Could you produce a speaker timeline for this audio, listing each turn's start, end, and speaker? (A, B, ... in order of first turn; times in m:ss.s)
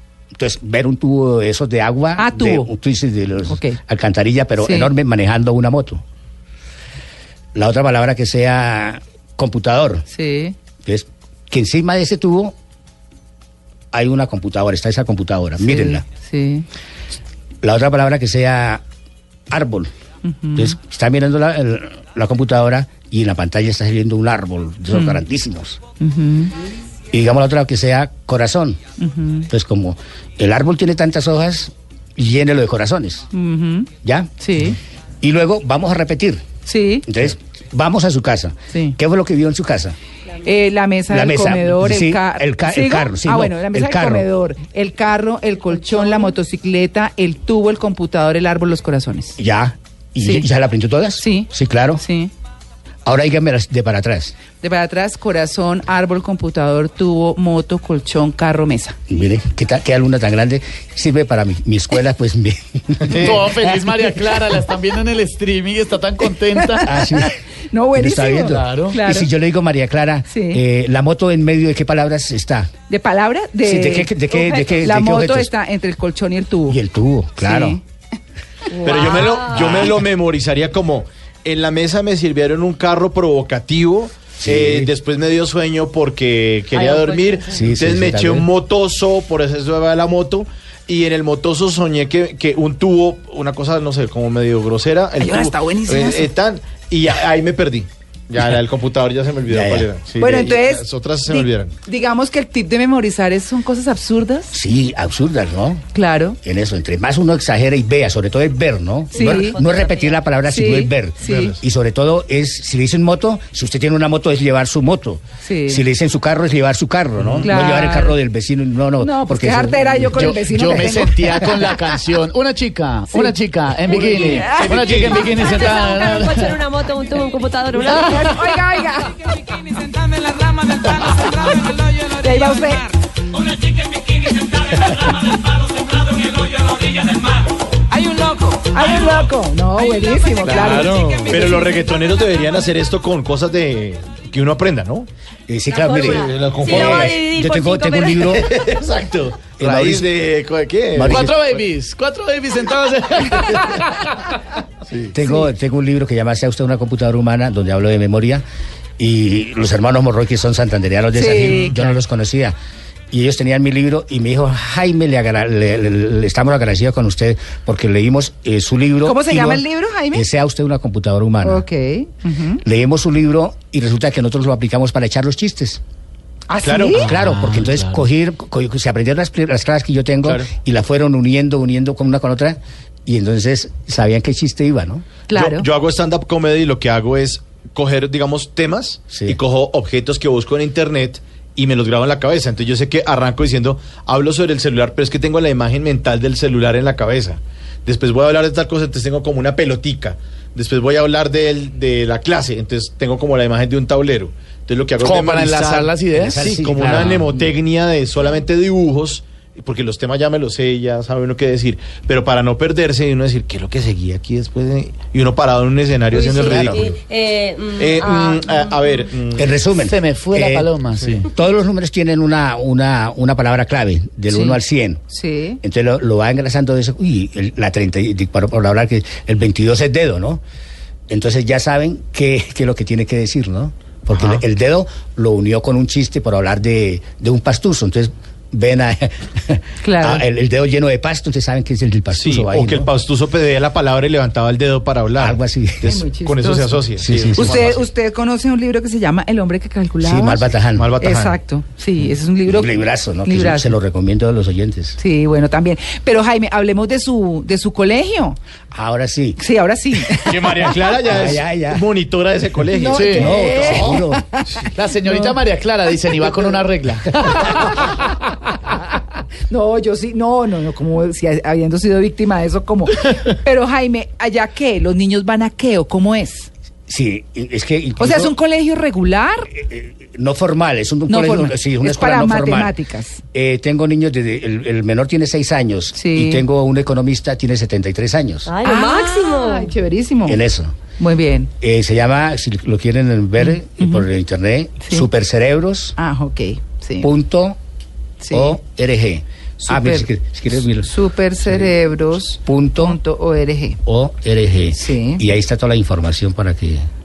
0:00.3-0:06.0 A
0:02.2-0:02.7 B
0:03.5-0:03.8 B
0:04.6-0:04.9 B
0:07.5-0:10.0 A
0:10.1-0:10.5 B
0:10.8-0:12.5 A
0:13.9-0:16.0 A
0:15.6-0:16.7 B
0:17.6-0:18.8 A
0:19.5-0:19.9 A
0:20.2-0:20.7 B
0:20.5-0:25.8 A
0:24.9-0:25.2 B
0:26.0-0:26.5 B
0:27.1-0:28.8 A
0:29.0-0:29.5 B
0:29.5-0:33.3 A
0:33.3-0:34.8 B
0:34.0-0:34.3 A
0:35.2-0:36.4 A
0:36.6-0:37.1 B
0:37.0-0:40.0 A
0:38.7-0:39.0 B
0:40.4-0:49.4 B
0:41.1-0:44.3 A
0:49.4-0:52.0 A
0:50.2-0:50.5 B
0:51.2-0:52.3 B
0:53.0-0:54.3 A
0:54.6-0:59.0 B
0:59.1-1:03.8 A
1:03.1-1:03.4 C
1:03.1-1:07.0 D
1:06.5-1:09.3 B
1:06.8-1:07.4 A
1:07.9-1:12.7 A
1:08.5-1:09.0 D
1:10.3-1:10.6 B
1:12.9-1:14.2 B
1:13.6-1:15.5 A
1:14.3-1:14.7 E
1:14.8-1:16.8 B
1:16.7-1:17.8 A
1:17.4-1:17.8 B
1:18.7-1:19.9 E
1:18.8-1:41.7 C
1:24.4-1:24.9 A
1:26.7-1:27.6 E
1:27.5-1:28.5 A
1:35.2-1:36.3 B
1:39.5-1:39.9 A
1:40.2-1:44.5 B
1:44.5-1:45.8 A
1:45.9-1:46.4 B
1:46.4-2:00.4 A
1:49.1-1:49.6 B
1:49.1-1:50.2 E
1:50.4-1:51.5 B
1:51.2-1:51.6 C
1:55.4-1:55.8 B
1:57.2-1:57.5 C
1:57.4-1:58.2 B
1:59.0-2:01.7 B
2:00.1-2:06.6 D
2:03.9-2:04.8 B
2:03.9-2:05.6 C
2:05.3-2:08.3 E
2:07.8-2:09.5 B
2:10.5-2:12.9 B
2:18.1-2:21.3 B
2:20.4-2:21.3 D
2:20.5-2:25.1 C
2:21.3-2:21.6 E
2:25.5-2:28.5 A
2:25.7-2:28.4 E
2:26.1-2:27.2 C
2:28.2-2:31.6 C
2:29.6-2:30.1 A
2:30.9-2:31.3 A
2:31.0-2:34.1 D
2:34.9-2:35.1 C
2:35.1-2:38.4 A
2:39.0-2:42.6 A
2:41.1-2:41.7 B
2:41.4-2:41.7 C
2:43.1-2:51.6 A
2:49.0-2:50.2 B
2:51.4-2:52.6 B
2:52.6-2:55.8 A
2:56.5-2:57.1 B
2:56.6-2:57.1 C
2:57.0-2:58.0 D
2:57.1-3:05.0 A
3:05.3-3:05.7 B
3:05.3-3:36.9 C
3:09.1-3:09.4 A
3:25.0-3:27.5 D
3:26.2-3:27.2 A
3:36.1-3:38.8 E
3:36.5-3:36.8 A
3:37.8-3:39.5 C
3:39.4-3:40.7 A
3:39.8-3:41.3 D
3:41.2-3:45.0 A
3:44.3-3:44.6 B
3:45.1-3:45.6 B
3:45.6-3:50.4 A
3:51.1-4:02.9 A
3:54.1-3:54.4 C
3:59.8-4:00.2 B
4:02.1-4:07.9 C
4:05.2-4:06.0 A
4:05.8-4:06.8 B
4:07.0-4:07.7 A
4:07.4-4:10.5 B
4:10.0-4:10.9 A
4:10.7-4:11.4 C
4:11.0-4:13.7 B
4:12.4-4:15.0 A
4:15.0-4:18.4 B
4:18.7-4:19.4 A
4:19.4-4:20.7 B
4:20.1-4:24.7 C
4:20.9-4:21.8 A
4:22.7-4:24.5 B
4:22.9-4:23.4 D
4:23.2-4:24.3 A
4:24.7-4:28.1 D
4:25.0-4:25.4 B
4:29.5-4:36.5 B
4:36.9-4:38.3 A
4:38.0-4:39.5 B
4:39.5-4:42.7 A
4:41.1-4:43.2 B
4:43.3-4:48.5 A
4:45.9-4:46.4 B
4:48.5-4:49.7 E
4:48.6-4:50.4 B
4:50.2-4:50.8 A
4:51.0-4:51.5 B
4:51.6-4:56.0 A
4:53.4-4:54.0 B
4:56.0-4:57.1 B
4:57.0-4:57.6 A
4:58.2-4:58.6 B
4:58.3-5:00.9 A
4:59.6-5:00.1 B
5:00.6-5:03.8 B
5:02.4-5:03.0 A
5:03.8-5:06.9 A
5:04.7-5:05.2 B